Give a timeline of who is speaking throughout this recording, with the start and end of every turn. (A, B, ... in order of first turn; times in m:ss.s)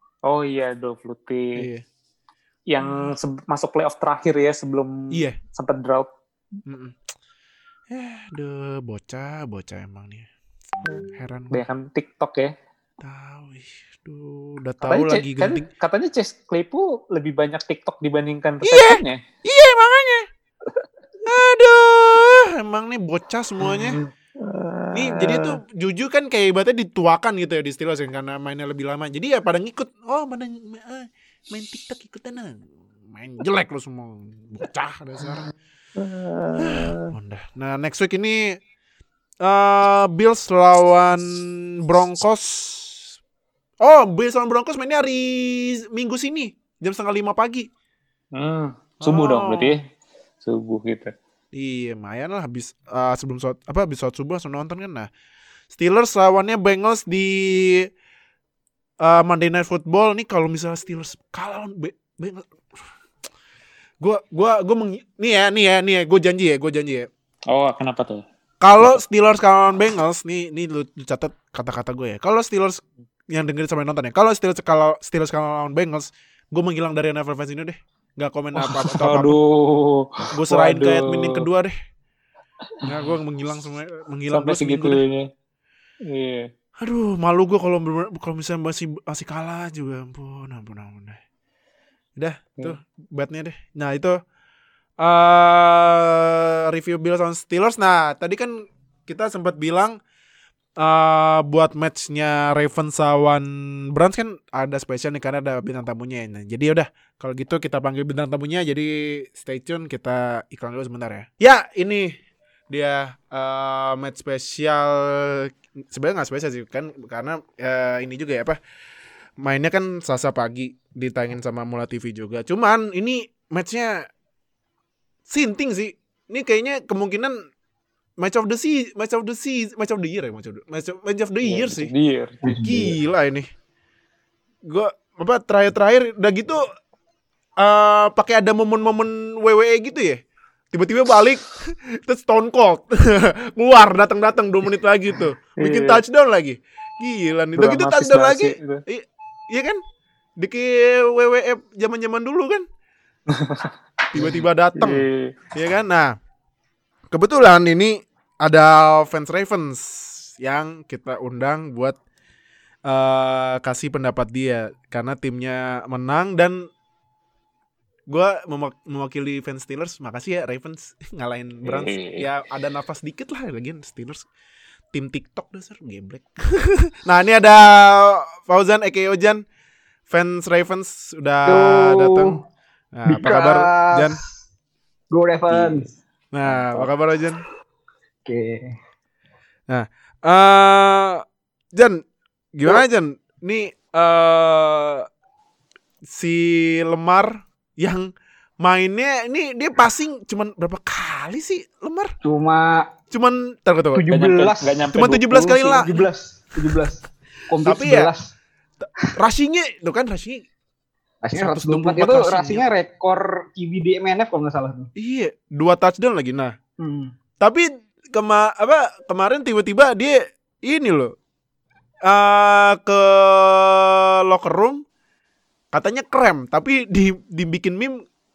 0:00.3-0:01.7 A
0:01.6-0:01.8 B
0:02.7-0:06.1 A
0:02.8-0:03.1 B
0:05.1-0:05.4 B
0:06.7-0:07.0 B
0:07.9-0:10.3 B
0:10.8-0:11.6 B
0:10.9-0:12.5 A
0:13.0-0:15.7 B
0:14.8-0:19.2 A
0:18.6-0:20.3 B
0:21.2-0:24.0 B
0:23.6-0:25.6 A
0:24.9-0:35.5 B
0:36.0-0:37.1 A
0:36.6-0:38.6 B
0:39.4-0:43.2 B
0:43.8-0:47.7 B
0:48.3-0:49.8 A
0:49.0-0:49.8 B
0:50.4-0:51.1 A
0:51.5-0:55.1 B
0:55.7-0:57.9 B
0:59.0-1:02.9 B
1:04.0-1:07.1 B
1:07.5-1:08.2 A
1:08.6-1:19.4 B
1:18.6-1:21.4 A
1:20.3-1:21.8 B
1:22.9-1:25.0 B
1:24.3-1:25.3 A
1:26.0-1:26.5 A
1:26.8-1:31.2 B
1:32.2-1:34.2 B
1:35.0-1:40.0 B
1:40.8-1:52.2 B
1:52.7-1:58.6 B
1:59.4-2:04.1 B
2:05.3-2:07.4 B
2:08.2-2:11.9 B
2:11.4-2:12.4 A
2:12.4-2:13.0 C
2:12.4-2:13.5 B
2:14.6-2:16.6 B
2:17.6-2:20.2 B
2:20.7-2:29.8 B
2:25.6-2:26.0 A
2:27.6-2:28.8 A
2:30.4-2:32.7 B
2:33.3-2:35.4 A
2:34.1-2:36.2 B
2:37.1-2:42.0 B
2:42.8-2:46.7 B
2:48.1-2:54.3 B
2:51.6-2:52.3 A
2:54.9-2:59.4 B
3:00.1-3:02.4 B
3:01.5-3:02.4 C
3:02.9-3:04.2 B
3:03.1-3:04.2 C
3:05.1-3:06.9 C
3:05.5-3:07.4 B
3:08.3-3:08.8 C
3:09.7-3:15.1 B
3:16.0-3:22.2 B
3:22.2-3:22.9 C
3:23.1-3:24.1 B
3:23.9-3:28.3 C
3:24.1-3:25.3 A
3:24.9-3:26.1 B
3:27.6-3:28.1 B
3:28.8-3:30.4 B
3:31.2-3:34.9 C
3:31.4-3:32.7 B
3:35.0-3:36.6 B
3:36.8-3:37.1 C
3:37.4-3:41.1 B
3:42.0-3:44.8 B
3:45.7-3:48.0 B